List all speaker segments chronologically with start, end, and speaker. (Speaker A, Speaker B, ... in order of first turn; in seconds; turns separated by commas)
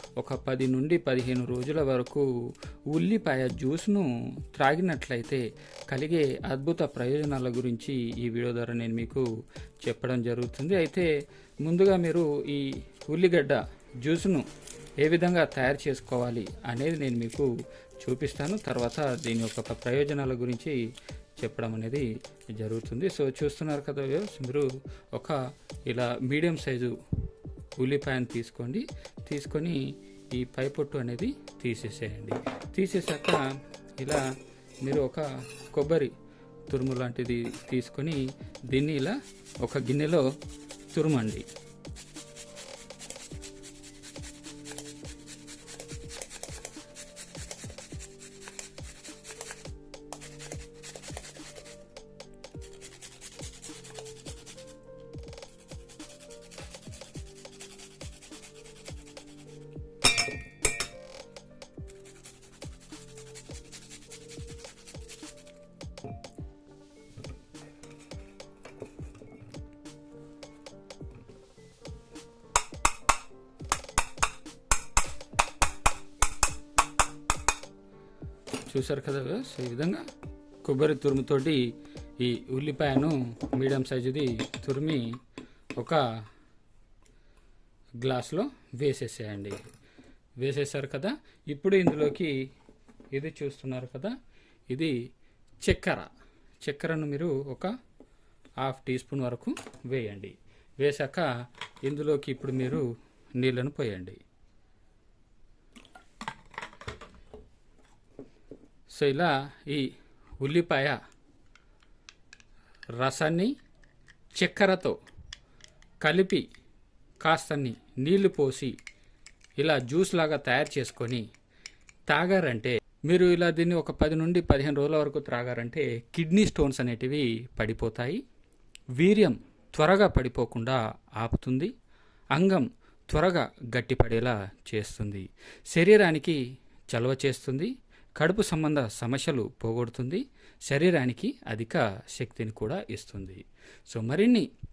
Speaker A: 0.2-2.3, Speaker A: 2.9-9.3, Speaker A: 9.8-11.1, Speaker A: 11.6-14.5, Speaker A: 15.0-20.8, Speaker A: 21.4-27.0, Speaker A: 27.8-33.4, Speaker A: 34.0-34.3, Speaker A: 34.8-36.1, Speaker A: 36.7-40.3, Speaker A: 40.9-41.5, Speaker A: 78.7-80.1, Speaker A: 80.6-85.2, Speaker A: 85.8-86.0, Speaker A: 88.0-89.6, Speaker A: 90.4-92.3, Speaker A: 93.1-94.1, Speaker A: 94.7-95.0, Speaker A: 95.6-96.1, Speaker A: 96.6-97.7, Speaker A: 98.6-101.3, Speaker A: 101.8-104.2, Speaker A: 108.9-111.0, Speaker A: 113.0-113.5, Speaker A: 114.3-115.0, Speaker A: 116.0-116.5, Speaker A: 117.2-118.8, Speaker A: 119.6-121.3, Speaker A: 122.1-128.2, Speaker A: 129.0-131.7, Speaker A: 132.3-144.5